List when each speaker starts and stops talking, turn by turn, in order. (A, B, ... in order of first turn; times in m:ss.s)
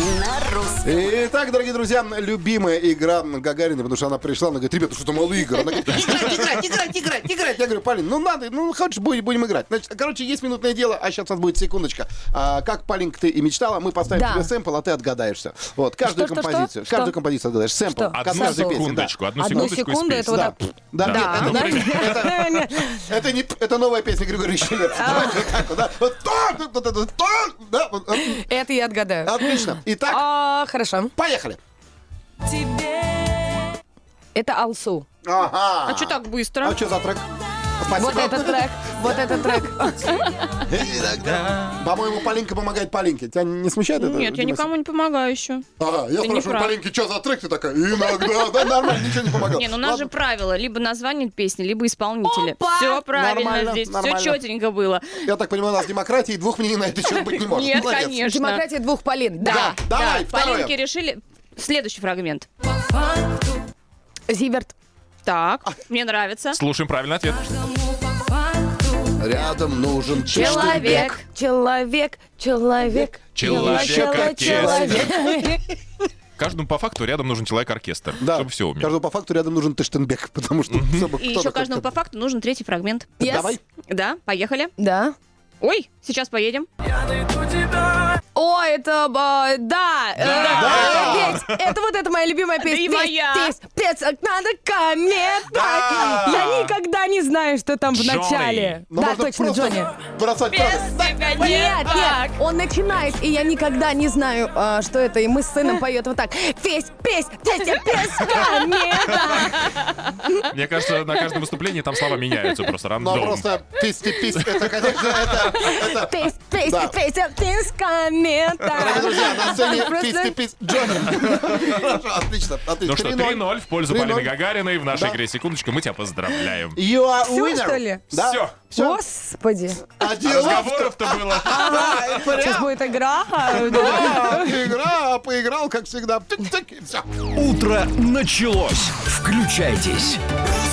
0:00.8-0:19.7 A
0:14.1-0:14.5 B
0:16.0-0:17.1 B
0:17.8-0:23.1 B
0:18.1-0:22.3 C
0:20.3-0:28.4 A
0:25.0-0:25.6 B
0:28.2-0:31.1 B
0:29.2-0:30.2 A
0:31.2-0:31.6 A
0:32.6-0:33.0 B
0:34.4-0:35.1 B
0:35.2-0:37.3 A
0:35.8-0:36.8 D
0:37.8-0:39.8 A
0:38.0-0:40.3 B
0:40.7-0:44.7 A
0:44.0-0:45.6 D
0:45.8-0:50.1 A
0:46.2-0:46.8 D
0:49.5-0:55.3 D
0:52.2-0:53.1 B
0:53.1-0:54.4 A
0:55.2-0:58.2 A
0:57.2-0:58.6 D
0:58.2-0:59.7 B
0:59.4-1:02.5 D
0:59.4-1:00.7 A
1:03.1-1:03.5 B
1:04.3-1:04.7 B
1:05.2-1:06.6 D
1:06.5-1:07.4 C
1:08.0-1:09.5 B
1:09.2-1:11.2 A
1:10.2-1:11.2 D
1:10.3-1:15.7 B
1:13.4-1:15.1 C
1:13.4-1:15.2 A
1:16.4-1:18.9 C
1:18.2-1:21.9 A
1:20.7-1:21.1 C
1:21.2-1:23.2 D
1:23.2-1:23.6 B
1:23.2-1:23.6 A
1:23.9-1:24.7 D
1:24.8-1:25.2 B
1:25.6-1:26.7 D
1:28.3-1:39.9 B
1:30.2-1:31.6 C
1:30.4-1:31.4 A
1:32.6-1:33.5 D
1:35.5-1:36.7 C
1:35.9-1:36.4 A
1:37.9-1:38.8 C
1:38.9-1:41.3 A
1:40.5-1:42.4 D
1:41.3-1:49.7 B
1:48.5-1:49.4 C
1:50.4-1:53.7 C
1:53.0-1:56.1 A
1:55.4-2:01.1 B
1:56.6-1:57.0 A
1:58.7-2:04.3 A
2:01.3-2:01.9 C
2:02.8-2:06.8 C
2:04.9-2:05.2 A
2:06.8-2:09.0 A
2:07.2-2:08.0 B
2:08.1-2:08.6 C
2:08.7-2:09.8 B
2:10.0-2:12.7 A
2:10.2-2:12.2 C
2:11.5-2:14.6 B
2:13.4-2:17.1 A
2:17.3-2:20.2 E